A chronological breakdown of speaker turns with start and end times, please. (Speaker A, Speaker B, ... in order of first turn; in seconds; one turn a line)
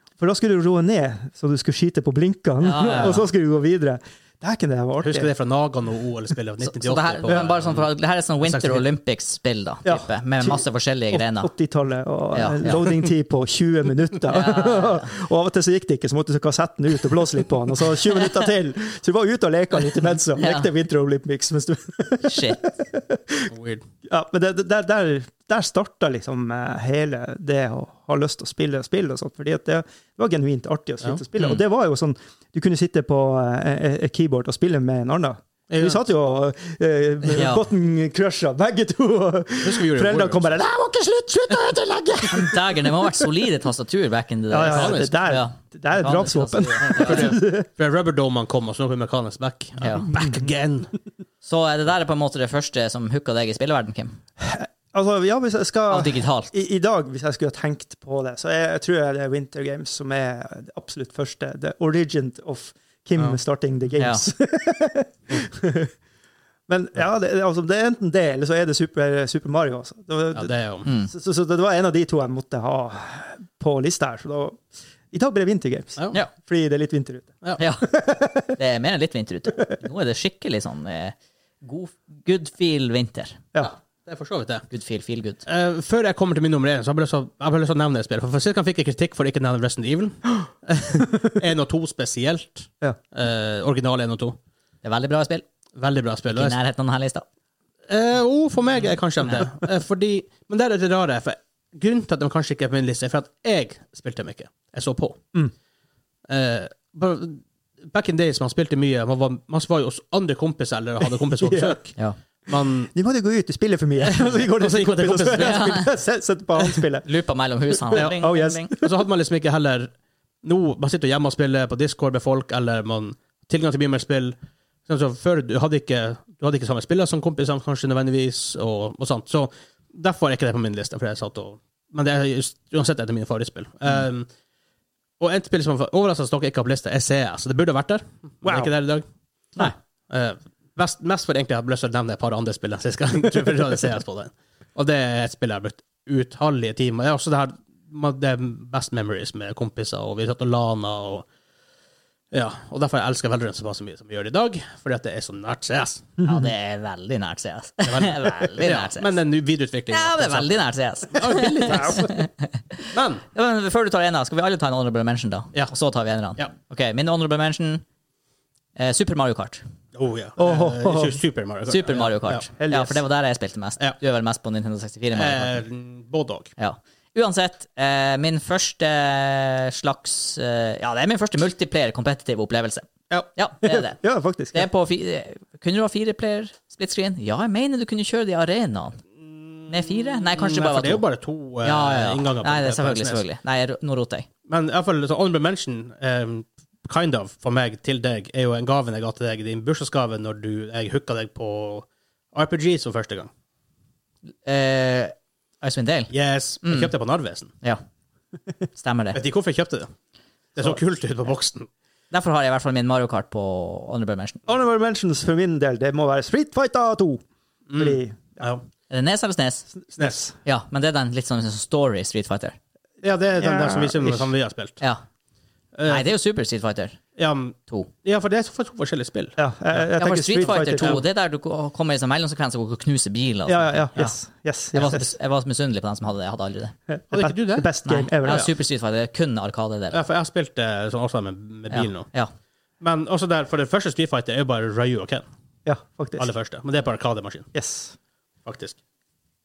Speaker A: 0.2-5.3
Speaker B: 2.6-3.2
Speaker C: 5.0-7.9
Speaker B: 6.6-11.5
Speaker C: 8.4-8.9
Speaker A: 9.8-23.5
Speaker B: 12.3-12.9
Speaker B: 14.3-15.1
Speaker B: 20.4-20.7
Speaker B: 22.2-22.6
Speaker C: 23.5-23.9
Speaker A: 24.1-43.3
Speaker C: 35.7-36.0
Speaker B: 37.2-37.7
Speaker C: 39.6-40.5
Speaker B: 42.3-47.4
Speaker A: 44.5-47.7
Speaker C: 44.7-45.2
Speaker C: 46.8-50.9
Speaker B: 49.8-50.1
Speaker A: 50.1-50.4
Speaker B: 51.4-54.2
Speaker A: 54.4-65.9
Speaker B: 55.9-56.5
Speaker B: 64.0-64.2
Speaker A: 66.7-70.5
Speaker C: 70.3-70.9
Speaker B: 70.8-71.1
Speaker A: 71.0-78.6
Speaker B: 77.6-83.4
Speaker C: 83.6-84.7
Speaker B: 84.7-85.4
Speaker C: 85.5-94.4
Speaker B: 94.8-95.5
Speaker C: 95.8-96.6
Speaker B: 96.3-97.2
Speaker C: 97.9-105.2
Speaker C: 106.3-112.0
Speaker A: 111.4-111.8
Speaker C: 112.5-112.9
Speaker A: 112.9-117.1
Speaker C: 114.0-115.7
Speaker B: 115.4-115.9
Speaker B: 117.0-118.7
Speaker A: 117.9-118.9
Speaker C: 118.0-118.3
Speaker C: 118.8-119.9
Speaker C: 120.4-124.3
Speaker C: 124.9-134.3
Speaker C: 135.2-139.0
Speaker A: 138.4-138.7
Speaker C: 140.1-151.2
Speaker C: 152.3-156.2
Speaker B: 156.2-159.2
Speaker C: 157.9-162.1
Speaker B: 159.9-167.8
Speaker A: 161.6-162.2
Speaker C: 162.9-163.2
Speaker B: 168.8-169.6
Speaker C: 169.9-172.5
Speaker A: 170.4-171.2
Speaker B: 171.7-175.6
Speaker A: 172.5-173.0
Speaker C: 175.1-176.5
Speaker B: 176.6-184.0
Speaker A: 183.7-184.7
Speaker B: 184.5-189.0
Speaker C: 189.2-193.2
Speaker B: 189.7-191.0
Speaker B: 191.6-194.3
Speaker C: 194.5-203.3
Speaker B: 204.4-206.1
Speaker C: 206.1-207.5
Speaker B: 206.6-206.9
Speaker B: 208.8-209.2
Speaker C: 209.1-209.9
Speaker C: 210.6-211.7
Speaker B: 212.1-214.4
Speaker A: 214.5-217.2
Speaker C: 217.7-218.6
Speaker A: 217.8-218.5
Speaker B: 218.9-219.7
Speaker A: 219.9-220.3
Speaker C: 220.0-220.2
Speaker B: 220.4-222.6
Speaker C: 223.0-224.8
Speaker A: 223.4-224.3
Speaker C: 225.7-226.1
Speaker B: 225.9-227.0
Speaker C: 227.2-229.9
Speaker A: 229.4-231.0
Speaker B: 230.0-234.2
Speaker C: 230.4-231.0
Speaker A: 233.5-235.1
Speaker B: 234.7-236.8
Speaker A: 236.9-238.5
Speaker C: 237.1-237.7
Speaker B: 237.8-240.0
Speaker C: 239.9-242.1
Speaker B: 241.7-242.3
Speaker C: 242.8-245.2
Speaker A: 245.7-246.3
Speaker C: 246.2-247.5
Speaker A: 247.5-247.9
Speaker C: 248.5-248.8